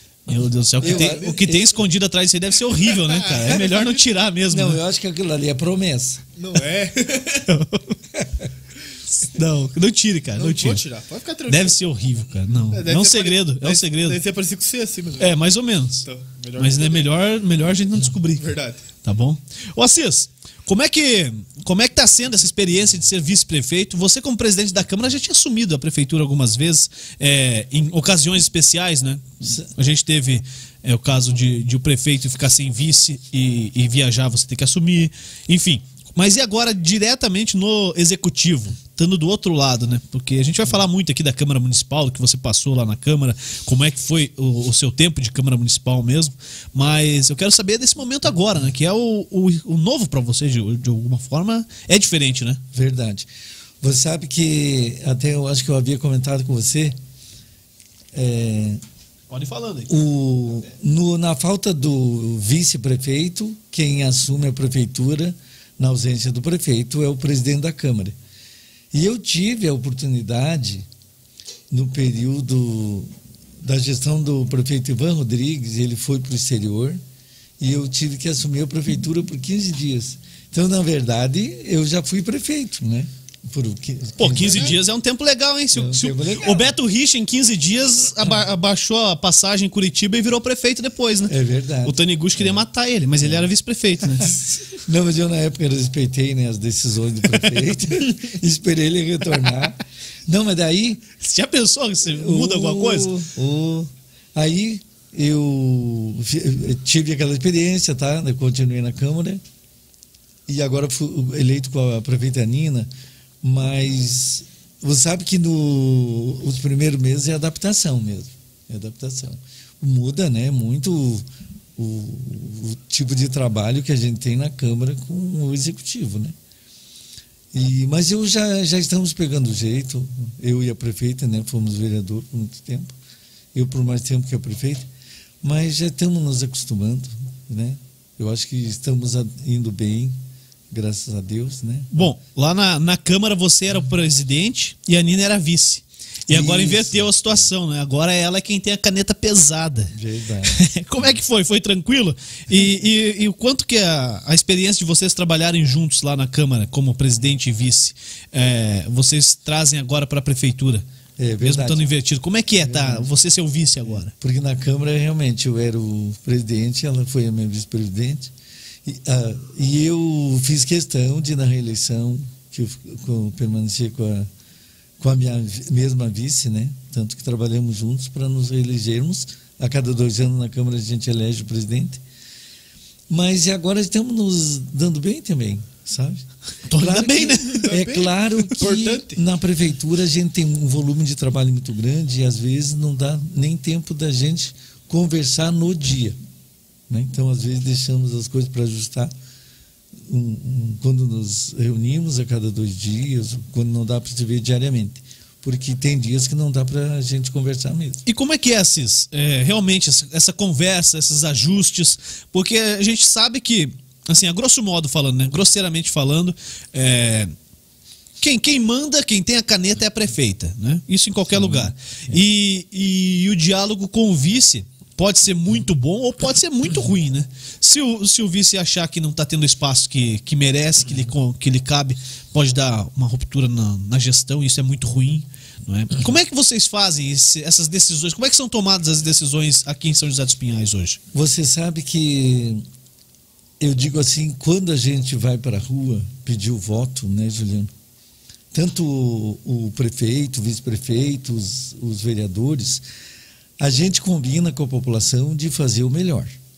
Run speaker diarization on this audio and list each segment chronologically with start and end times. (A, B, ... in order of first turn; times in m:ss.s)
0:00.3-0:04.8 A
0:00.8-0:01.5 B
0:00.8-0:01.8 C
0:02.8-0:04.0 B
0:04.5-0:06.2 C
0:06.4-0:07.5 B
0:07.5-0:08.0 A
0:09.3-0:10.8 A
0:10.4-0:11.8 B
0:11.5-0:14.2 A
0:12.7-0:15.3 B
0:15.2-0:16.0 A
0:16.0-0:17.1 B
0:16.6-0:18.5 A
0:18.4-0:18.8 B
0:19.0-0:52.6 A
0:29.4-0:29.7 C
0:52.7-0:53.3 C
0:53.8-0:56.9 C
0:58.1-0:58.8 C
0:59.3-0:59.9 A
0:59.9-1:08.1 C
1:08.9-1:10.8 C
1:11.7-1:17.0 C
1:17.6-1:24.8 C
1:24.2-1:34.4 A
1:24.4-1:24.7 B
1:25.7-1:26.7 C
1:31.3-1:32.6 C
1:33.2-1:33.5 C
1:34.0-1:41.0 C
1:41.2-1:43.2 A
1:42.0-1:49.4 C
1:50.5-1:52.9 C
1:53.4-2:01.2 C
2:01.8-2:06.4 C
2:07.5-2:12.9 C
2:13.5-2:14.9 C
2:15.4-2:20.2 C
2:20.7-2:22.0 C
2:21.9-2:29.9 A
2:26.3-2:27.5 C
2:29.9-2:30.6 C
2:30.4-2:40.8 A
2:41.2-2:41.9 C
2:41.4-2:44.1 A
2:42.6-2:43.1 C
2:43.8-2:48.3 C
2:48.8-2:54.3 C
2:55.0-3:02.0 C
3:03.1-3:16.2 C
3:06.7-3:07.7 A
3:07.5-3:09.2 B
3:16.9-3:19.1 C
3:20.0-3:28.0 C
3:28.0-3:37.3 A
3:38.2-4:01.0 A
3:41.3-3:42.2 C
4:01.1-4:02.6 C
4:03.6-4:07.7 C
4:08.5-4:12.8 C
4:13.6-4:16.4 C